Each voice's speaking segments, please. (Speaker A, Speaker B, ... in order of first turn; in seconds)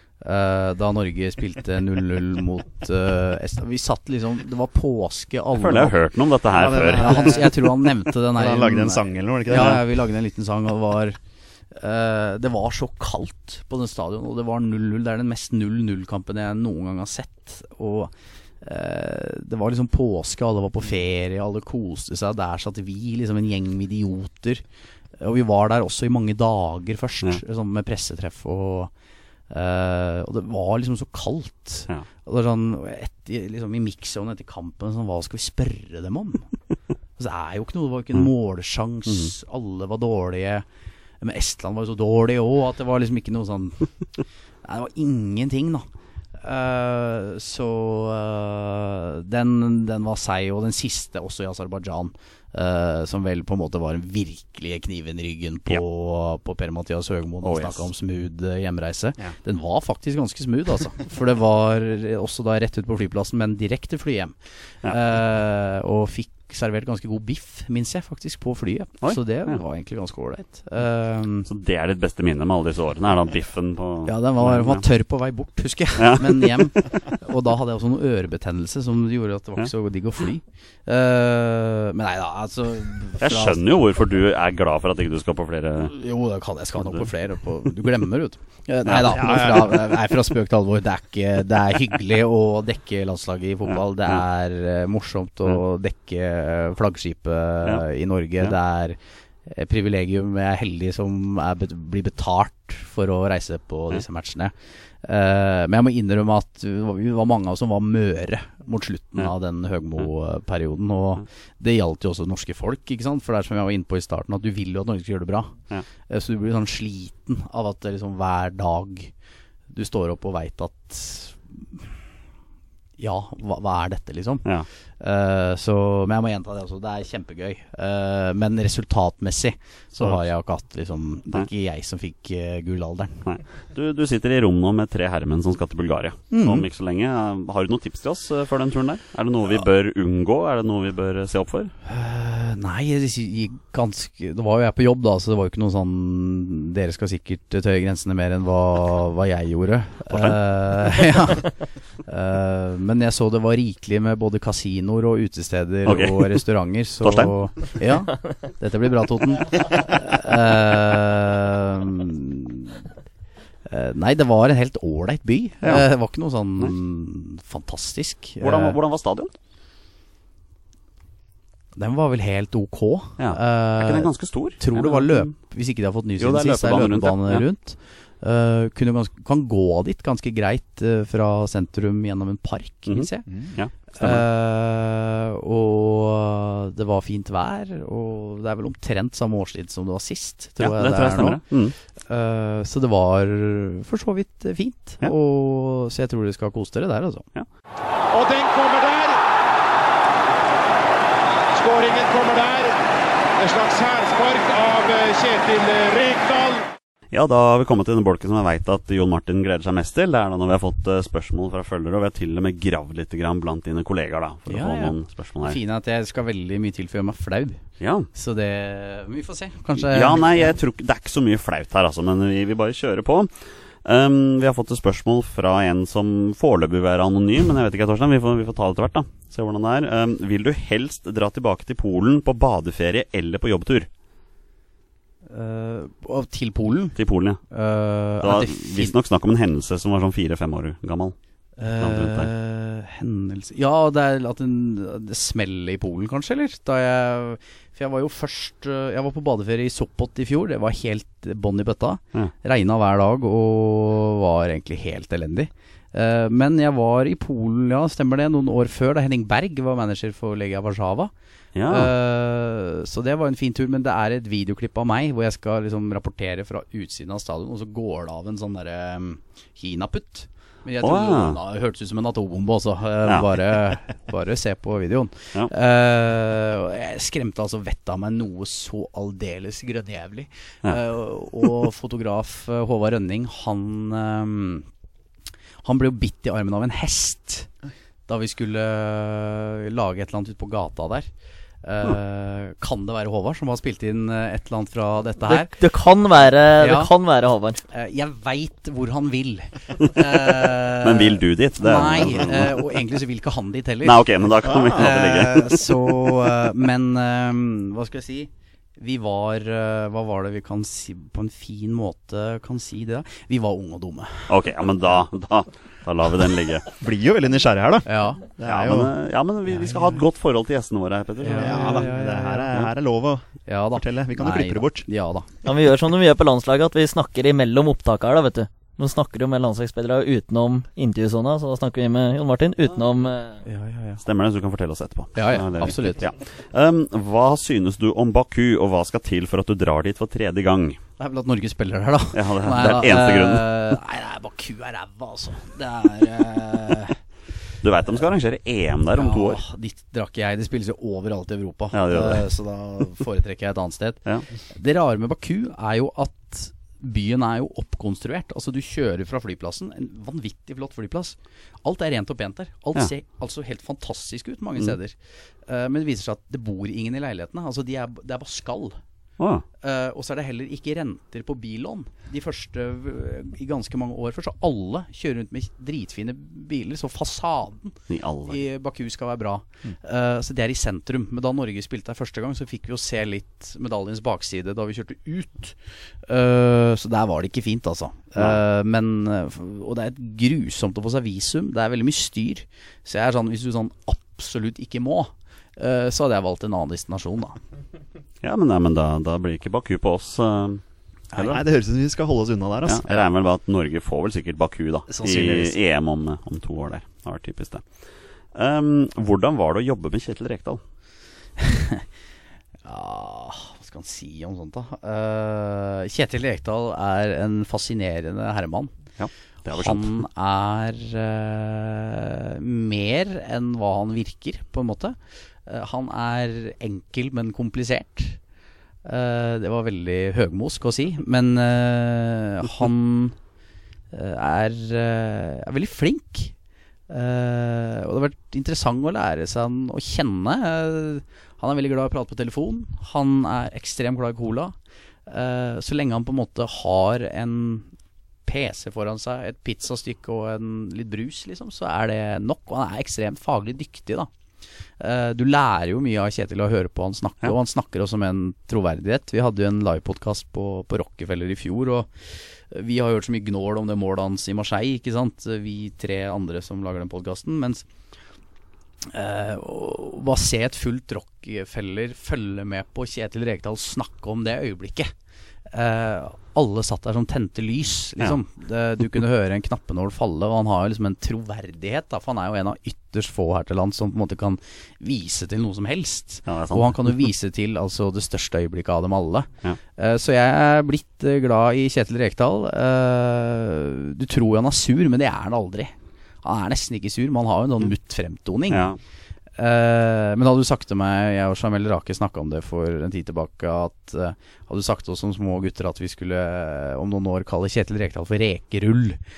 Speaker A: 0.2-6.0, 6.9-11.2, 11.7-24.6, 25.2-28.9, 29.5-36.5, 37.2-40.6, 41.2-43.9, 44.6-71.5, 74.0-83.6, 85.8-115.5, 116.1-119.1, 119.7-121.9, 123.0-133.2, 136.3-136.6, 141.9-162.8, 163.7-168.8, 171.8-183.3, 183.9-191.4, 191.9-197.3, 214.5-220.5, 235.3-237.0, 237.5-238.9, 241.6-261.1, 261.7-284.7, 285.6-287.5, 288.1-295.5, 296.6-296.9, 297.6-314.3, 317.9-318.2, 321.2-322.5, 323.5-325.3, 333.4-334.0, 335.1-336.1, 341.0-347.0, 348.9-368.8, 369.6-397.4, 411.4-411.8, 412.6-418.7, 419.5-428.2, 428.8-433.2, 433.9-436.3, 436.9-444.6, 445.1-447.7, 448.2-454.1, 454.8-467.7, 468.9-474.9, 475.5-498.7, 499.4-509.0
Speaker B: 5.5-7.5, 9.5-9.8, 57.4-57.8, 69.0-69.6, 71.5-74.8, 76.0-76.7, 83.2-85.9, 88.8-89.7, 133.2-141.7, 150.1-150.4, 155.9-156.4, 157.0-157.8, 168.4-169.3, 173.2-175.3, 176.2-177.4, 182.9-184.2, 190.6-191.8, 207.1-215.6, 217.8-218.1, 219.9-233.9, 237.0-237.4, 238.2-241.2, 241.8-242.3, 261.6-261.9, 270.8-271.4, 273.1-273.3, 300.8-302.8, 303.8-305.8, 314.3-316.7, 318.4-321.9, 334.0-340.8, 342.1-343.5, 347.6-349.4, 351.7-352.3, 369.2-369.4, 377.9-378.4, 398.2-401.4, 402.6-410.6, 419.0-420.0, 486.3-486.9, 498.5-498.8
Speaker C: 6.5-7.5, 8.3-9.8, 89.1-89.8, 183.3-183.6, 304.7-304.9, 316.8-318.9, 321.4-324.9, 401.2-402.9, 404.9-405.6
Speaker D: 198.1-199.2, 201.5-202.8, 203.4-206.6
Speaker E: 295.3-297.6, 325.4-333.4